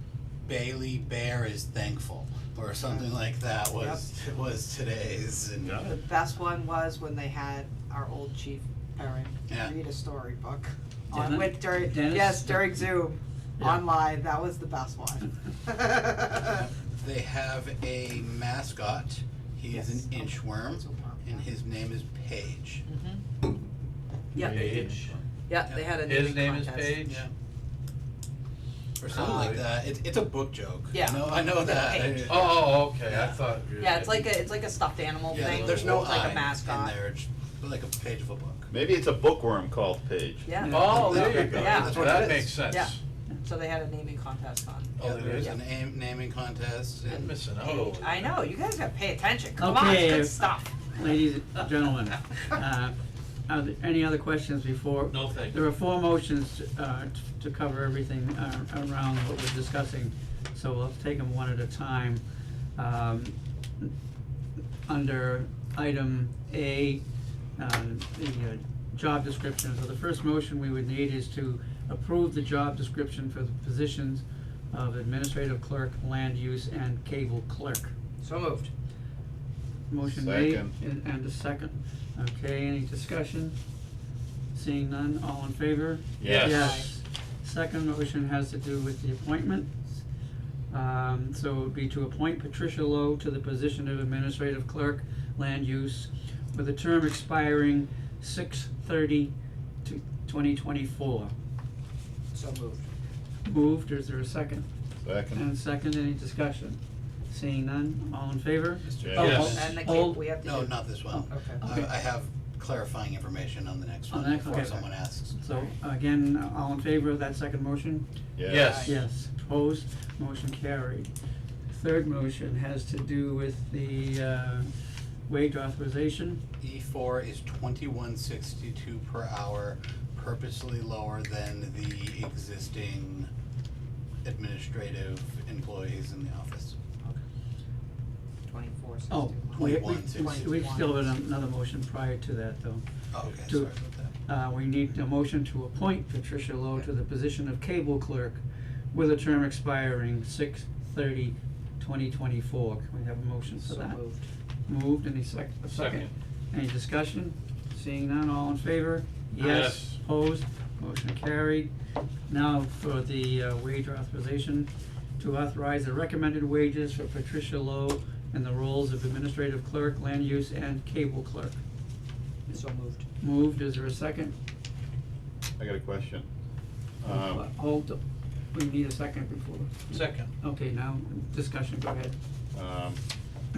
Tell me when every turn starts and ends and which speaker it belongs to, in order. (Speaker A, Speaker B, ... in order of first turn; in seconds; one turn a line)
Speaker A: 0.5-5.8
Speaker B: 3.8-4.0
Speaker C: 5.6-6.0
Speaker B: 5.8-16.6
Speaker A: 9.5-9.8
Speaker D: 11.1-12.9
Speaker D: 13.6-13.8
Speaker A: 16.4-22.8
Speaker B: 19.7-21.4
Speaker B: 22.9-23.2
Speaker C: 24.3-25.1
Speaker B: 24.3-27.1
Speaker E: 24.4-25.0
Speaker A: 25.6-25.9
Speaker C: 25.9-27.2
Speaker A: 27.0-27.3
Speaker A: 29.0-33.4
Speaker B: 29.1-29.6
Speaker C: 29.1-29.7
Speaker B: 30.9-32.6
Speaker C: 31.9-34.4
Speaker B: 33.8-36.9
Speaker A: 35.3-38.7
Speaker E: 35.3-36.2
Speaker C: 35.4-36.1
Speaker E: 38.7-40.5
Speaker B: 40.4-45.6
Speaker D: 40.6-41.9
Speaker C: 40.6-43.0
Speaker A: 40.8-42.6
Speaker C: 45.0-45.6
Speaker A: 45.0-47.3
Speaker C: 47.1-48.4
Speaker B: 47.1-50.7
Speaker D: 49.6-53.0
Speaker D: 53.5-62.2
Speaker C: 55.1-55.7
Speaker D: 62.8-63.9
Speaker D: 64.8-67.0
Speaker D: 67.6-77.9
Speaker B: 78.2-78.7
Speaker D: 79.9-83.5
Speaker E: 80.0-80.7
Speaker D: 84.5-89.8
Speaker E: 86.2-86.7
Speaker C: 86.2-86.8
Speaker B: 86.4-86.9
Speaker D: 90.7-99.3
Speaker D: 99.8-101.3
Speaker B: 102.3-102.8
Speaker D: 103.4-104.7
Speaker E: 105.0-105.4
Speaker D: 105.3-110.3
Speaker A: 108.8-109.5
Speaker E: 109.0-109.3
Speaker C: 109.2-109.7
Speaker B: 109.2-110.7
Speaker A: 110.4-115.3
Speaker D: 110.8-111.9
Speaker B: 111.3-111.6
Speaker D: 114.1-118.0
Speaker E: 118.4-118.9
Speaker C: 118.4-118.9
Speaker D: 118.6-121.1
Speaker B: 118.6-118.9
Speaker D: 121.7-124.7
Speaker D: 125.3-126.4
Speaker A: 126.6-133.3
Speaker A: 134.2-136.8
Speaker B: 138.5-141.1
Speaker D: 139.1-142.8
Speaker A: 139.5-140.9
Speaker A: 143.1-144.1
Speaker D: 143.4-143.7
Speaker D: 144.2-148.4
Speaker D: 148.9-154.0
Speaker B: 153.5-154.2
Speaker D: 154.7-161.7
Speaker C: 155.7-156.1
Speaker C: 159.3-160.0
Speaker D: 162.3-171.6
Speaker B: 172.5-173.0
Speaker D: 173.2-174.3
Speaker E: 175.6-176.3
Speaker E: 177.0-177.4
Speaker D: 177.0-178.0
Speaker D: 178.5-182.2
Speaker C: 179.9-180.3
Speaker E: 182.5-183.0